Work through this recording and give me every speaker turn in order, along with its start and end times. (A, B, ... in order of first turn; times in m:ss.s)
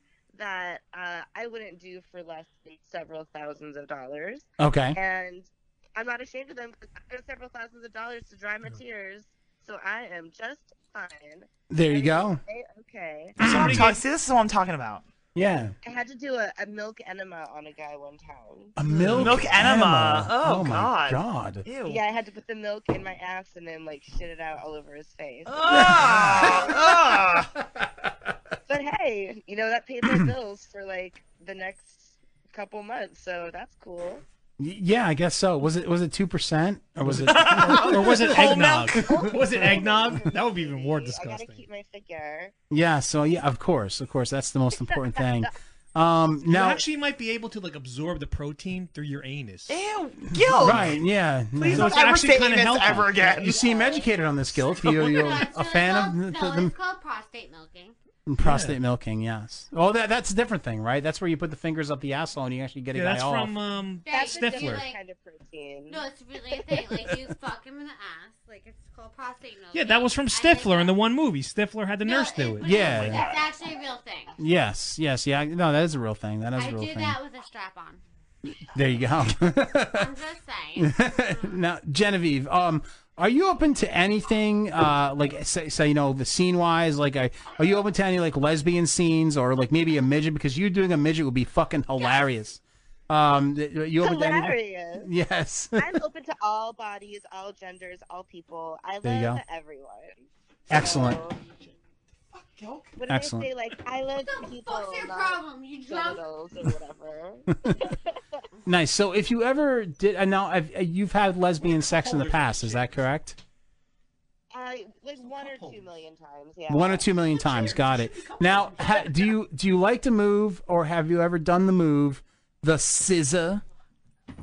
0:00.3-0:13.4 A
0:04.6-0:05.0 B
0:11.7-0:12.4 B
0:13.4-0:13.9 B
0:13.4-0:15.0 C
0:13.4-0:13.9 D
0:15.4-0:15.7 B
0:15.8-0:18.8 A
0:18.8-0:21.6 B
0:18.9-0:19.4 D
0:19.1-0:22.0 C
0:21.9-0:25.8 A
0:25.5-0:27.5 C
0:25.7-0:26.8 B
0:26.4-0:26.7 A
0:28.7-0:34.2 A
0:34.6-0:39.4 B
0:37.0-0:41.6 D
0:37.3-0:39.0 C
0:39.0-0:42.5 A
0:42.7-0:46.8 B
0:44.8-0:45.5 A
0:46.5-0:49.8 D
0:49.7-0:51.0 C
0:50.3-0:52.0 B
0:50.6-0:51.0 D
0:51.6-0:53.6 C
0:51.7-0:53.6 D
0:53.4-0:56.7 B
0:53.5-0:54.1 A
0:54.8-0:58.0 E
0:58.3-1:03.5 B
0:58.4-0:58.8 D
1:02.9-1:04.9 D
1:04.1-1:05.0 E
1:04.1-1:06.0 A
1:05.9-1:11.0 E
1:09.7-1:13.2 D
1:12.0-1:14.4 E
1:12.6-1:13.3 B
1:14.4-1:17.2 B
1:16.6-1:18.0 E
1:18.7-1:20.1 B
1:19.9-1:21.6 E
1:20.8-1:35.8 B
1:32.0-1:32.3 E
1:34.0-1:35.1 A
1:35.8-1:41.4 A
1:39.0-1:39.4 B
1:40.7-1:41.2 B
1:43.0-1:48.4 A
1:43.1-1:43.5 B
1:44.2-1:46.2 E
1:48.7-1:53.4 B
1:51.8-1:53.0 D
1:54.5-1:57.1 A
1:55.2-1:55.9 D
1:56.7-2:03.6 B
1:57.5-1:59.2 D